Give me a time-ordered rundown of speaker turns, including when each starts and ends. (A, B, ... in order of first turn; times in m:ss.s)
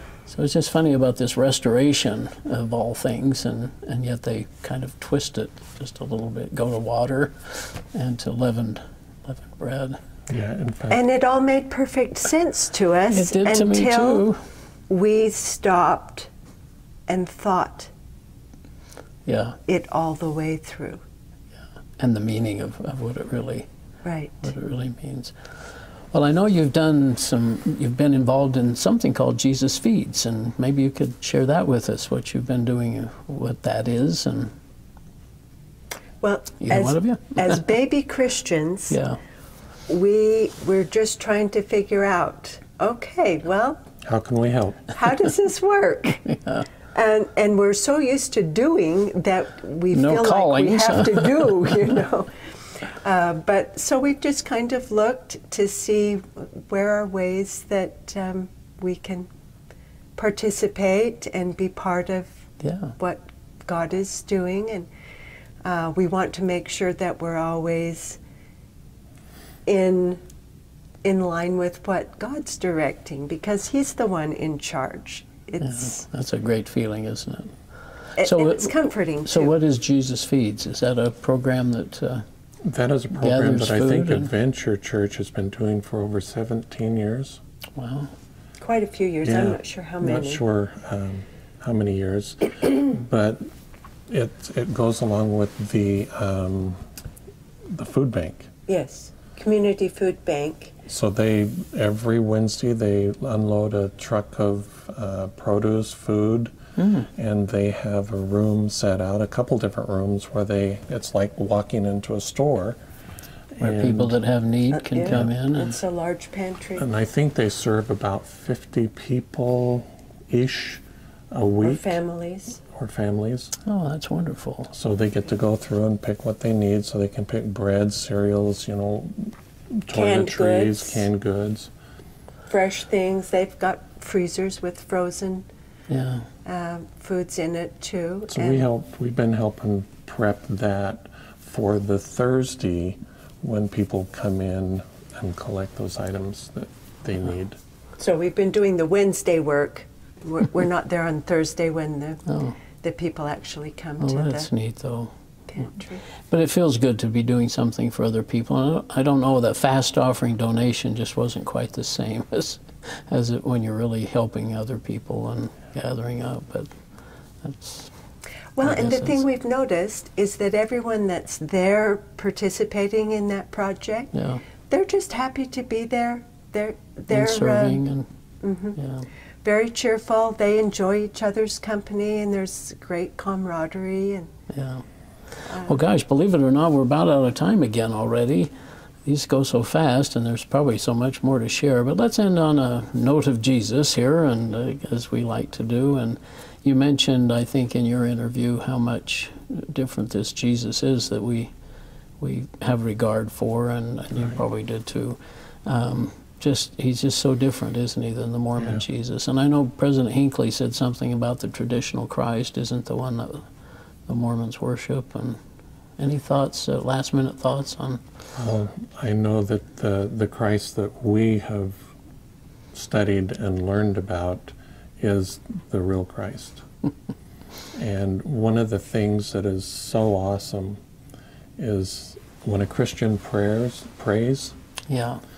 0:00.3-0:10.0 A
0:10.3-0:11.0 B
0:10.9-0:14.3 C
0:13.1-0:14.4 A
0:14.9-0:16.3 C
0:17.1-0:17.9 C
0:19.2-0:19.6 A
0:19.7-0:21.0 C
0:22.0-0:23.7 A
0:24.0-0:24.5 C
0:24.4-0:25.3 A
0:26.1-0:34.5 A
0:36.2-0:39.0 C
0:36.6-0:37.6 A
0:38.9-0:39.2 A
0:39.9-0:43.8 C
0:44.0-0:45.0 B
0:44.9-0:46.3 C
0:46.2-0:46.7 A
0:46.9-0:59.3 C
0:49.9-0:51.9 A
1:00.2-1:02.3 C
1:02.6-1:02.9 A
1:03.0-1:04.9 C
1:05.6-1:08.2 C
1:09.6-1:10.2 C
1:11.0-1:16.0 C
1:15.6-1:17.5 A
1:18.2-1:19.5 C
1:18.2-1:22.2 A
1:22.6-1:27.4 B
1:23.1-1:24.3 A
1:27.8-1:28.1 A
1:28.6-1:30.4 C
1:29.2-1:33.5 B
1:34.1-1:36.8 B
1:37.7-1:38.5 B
1:38.7-1:40.7 C
1:40.8-1:46.5 B
1:46.8-1:47.1 A
1:47.1-1:52.8 B
1:53.6-1:54.2 B
1:53.6-1:55.8 A
1:54.7-1:56.9 C
1:56.8-2:02.0 B
2:01.6-2:02.6 C
2:02.6-2:03.5 B
2:03.6-2:04.7 A
2:04.7-2:09.3 B
2:09.8-2:11.7 B
2:09.9-2:11.0 C
2:12.5-2:15.4 C
2:15.9-2:16.3 A
2:16.4-2:18.6 C
2:18.3-2:27.6 B
2:28.0-2:32.2 C
2:32.3-2:32.6 A
2:32.8-2:34.5 C
2:34.0-2:35.1 A
2:35.5-2:36.0 C
2:36.3-2:46.7 A
2:47.4-2:47.9 A
2:48.6-2:54.1 C
2:48.6-2:49.2 A
2:54.1-2:54.4 A
2:54.7-2:57.8 C
2:57.1-2:58.1 A
2:58.4-2:58.8 C
2:58.8-2:59.1 A
2:59.4-3:04.3 C
3:04.5-3:04.8 A
3:05.4-3:08.5 A
3:05.5-3:05.8 C
3:09.0-3:21.5 A
3:22.2-3:33.5 A
3:34.1-3:35.4 A
3:36.0-3:38.0 A
3:38.4-3:41.9 B
3:42.7-3:46.6 B
3:47.7-3:50.8 B
3:51.6-3:54.5 B
3:54.9-3:55.2 A